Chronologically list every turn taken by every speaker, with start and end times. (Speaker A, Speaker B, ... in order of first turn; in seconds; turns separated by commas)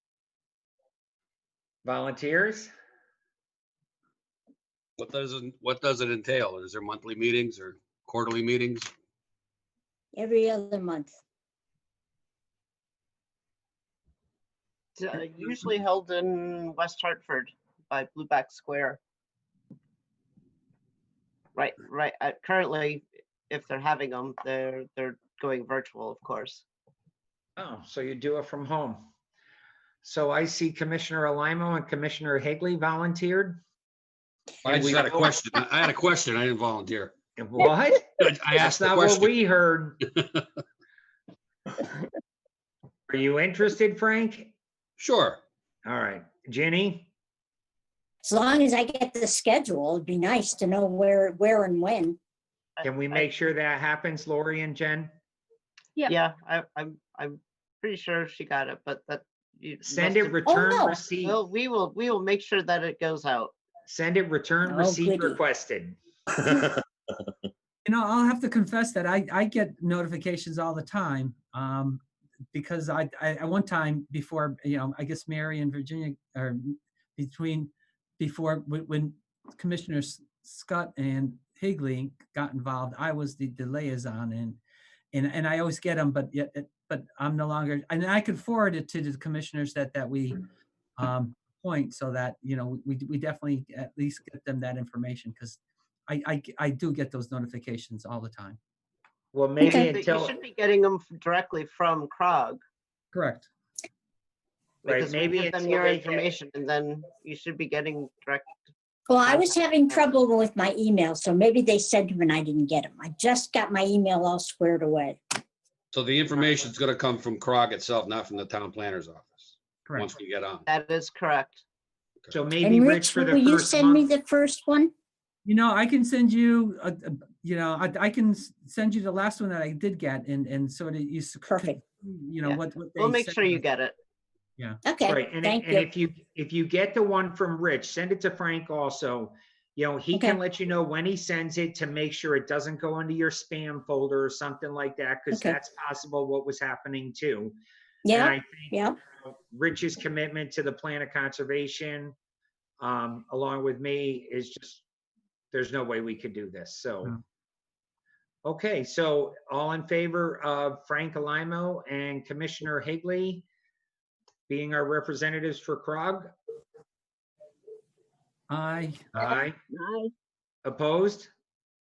Speaker A: 1.8-2.7, Speaker B: 5.0-8.9, Speaker C: 10.1-11.1, Speaker D: 15.0-19.0, Speaker D: 21.5-26.6, Speaker A: 27.6-29.0, Speaker A: 30.0-33.6, Speaker B: 34.6-37.1, Speaker A: 34.6-35.4, Speaker A: 37.4-40.0, Speaker B: 38.2-39.3, Speaker A: 43.1-44.5, Speaker B: 45.0-45.4, Speaker A: 45.8-47.1, Speaker C: 48.2-52.2, Speaker D: 52.8-53.3, Speaker A: 52.8-55.1, Speaker D: 56.1-60.4, Speaker A: 59.8-61.4, Speaker C: 60.5-60.9, Speaker D: 61.1-63.5, Speaker A: 63.9-66.0, Speaker C: 64.7-65.3, Speaker E: 67.8-72.0, Speaker E: 72.5-84.6, Speaker E: 85.1-90.4, Speaker E: 91.0-98.6, Speaker A: 99.3-100.3, Speaker C: 99.6-99.9, Speaker D: 99.8-102.6, Speaker E: 103.1-103.5, Speaker D: 104.8-108.7, Speaker A: 104.8-106.3, Speaker C: 109.1-115.2, Speaker D: 109.2-110.1, Speaker B: 115.9-120.7, Speaker D: 120.7-121.6, Speaker A: 122.3-124.1, Speaker C: 122.6-124.9, Speaker E: 125.4-133.6, Speaker C: 131.5-131.8, Speaker D: 132.4-133.9, Speaker C: 134.9-135.8, Speaker A: 135.0-147.6, Speaker C: 145.3-145.6, Speaker C: 148.1-149.0, Speaker A: 148.1-152.1, Speaker A: 152.8-154.8, Speaker A: 155.5-157.2, Speaker A: 158.4-163.4, Speaker A: 164.5-166.3, Speaker E: 168.5-169.1, Speaker A: 169.1-169.6, Speaker A: 170.6-171.3